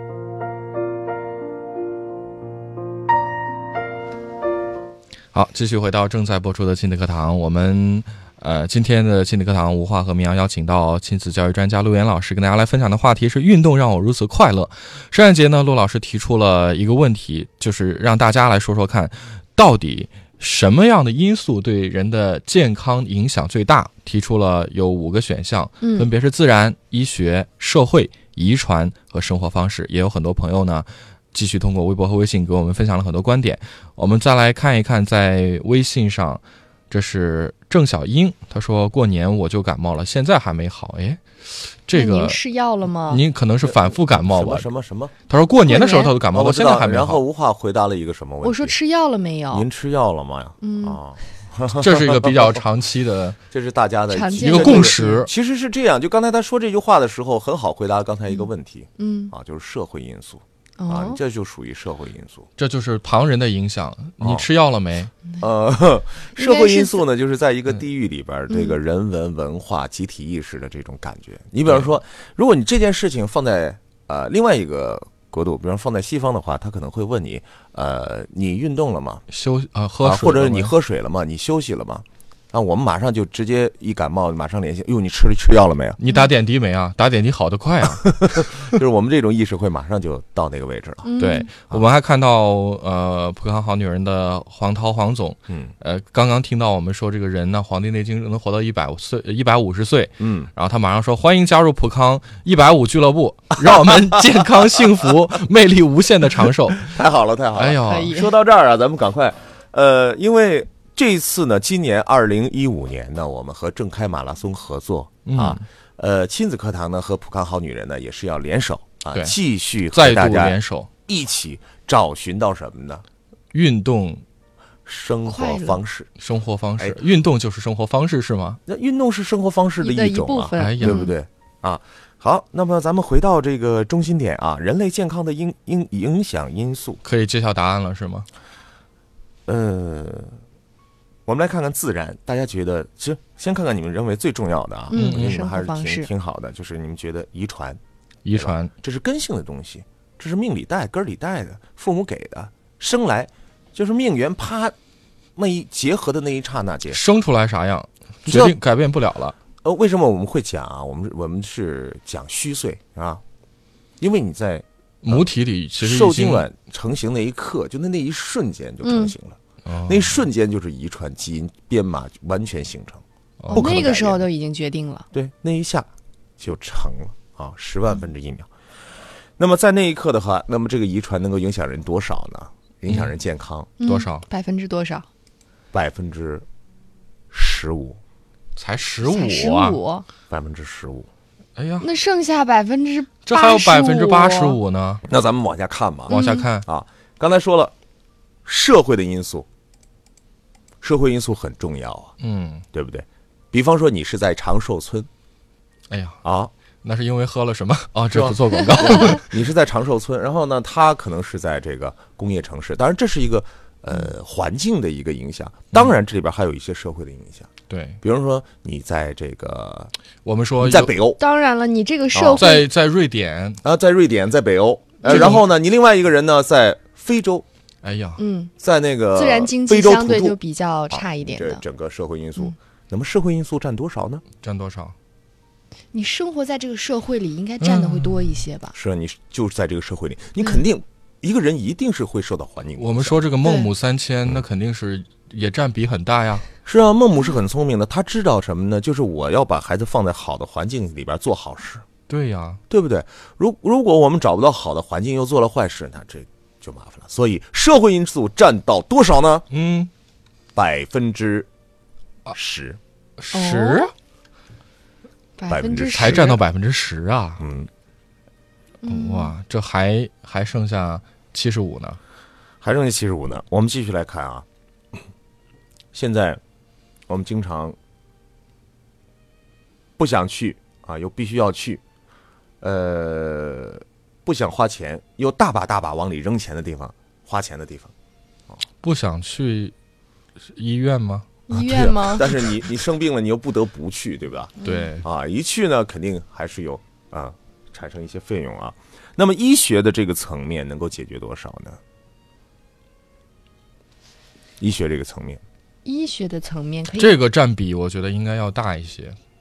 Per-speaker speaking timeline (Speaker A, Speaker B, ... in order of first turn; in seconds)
Speaker A: 5.3-42.4, 43.1-44.7, 45.3-47.2, 51.7-53.4, 54.4-55.3, 62.6-65.1, 79.3-80.7, 86.0-88.7, 91.2-106.9, 107.6-108.2, 115.2-115.6, 119.9-120.9, 123.5-124.2, 126.2-128.6, 130.6-131.1, 137.0-138.3, 144.9-145.4, 148.2-148.7, 156.9-159.3, 165.0-166.4, 169.7-170.2, 173.4-173.9, 183.8-184.2, 188.6-189.8, 191.6-191.9, 193.2-195.0, 196.1-196.7, 202.2-202.6, 205.9-206.2, 206.8-209.3, 217.7-218.0, 220.2-220.9, 222.4-223.6, 225.1-225.4, 227.8-228.2, 234.4-234.9, 237.6-238.4, 242.8-246.4, 252.1-252.6, 259.5-259.9, 263.2-263.9, 265.9-267.4, 268.9-272.0, 288.8-289.7, 290.4-291.8, 294.6-295.1, 307.0-309.2
Speaker B: 25.8-26.1, 41.9-43.2, 45.6-46.1, 48.4-49.7, 50.6-51.0, 54.1-55.2, 59.0-59.3, 60.8-61.2, 66.4-67.0, 68.5-68.8, 91.0-91.5, 107.8-108.3, 125.2-125.8, 129.8-131.1, 144.9-146.1, 168.8-169.1, 173.5-175.1, 183.8-185.1, 189.1-190.1, 191.8-194.6, 196.1-196.5, 221.2-222.7, 225.0-225.4, 228.2-228.5, 229.1-231.6, 235.9-238.7, 243.4-243.7, 263.3-263.9, 265.4-266.4, 268.8-269.4, 291.5-292.4, 294.6-294.9, 305.9-307.2
Speaker C: 43.6-45.1, 46.3-48.8, 49.5-52.6, 53.5-62.5, 64.2-64.5, 65.4-79.2, 80.0-86.0, 88.0-91.1, 100.2-100.5, 103.6-104.5, 106.8-123.0, 124.9-126.1, 128.7-137.0, 139.5-140.4, 141.2-147.8, 148.3-154.7, 155.4-157.0, 158.2-158.6, 159.6-163.2, 164.0-165.3, 165.8-174.3, 175.1-178.5, 179.4-183.7, 185.7-186.4, 187.3-188.0, 190.3-191.1, 195.1-197.7, 198.4-199.5, 200.8-202.2, 202.7-205.1, 206.2-206.5, 208.1-217.5, 218.0-219.9, 220.6-221.2, 222.1-222.5, 223.6-227.4, 228.6-230.4, 230.9-234.2, 238.7-243.3, 246.6-251.9, 252.7-259.5, 260.6-261.5, 262.3-262.8, 265.5-266.4, 267.4-267.7, 272.6-275.0, 275.9-276.4, 277.1-277.8, 280.0-281.8, 282.6-287.9, 291.5-301.8, 304.6-305.4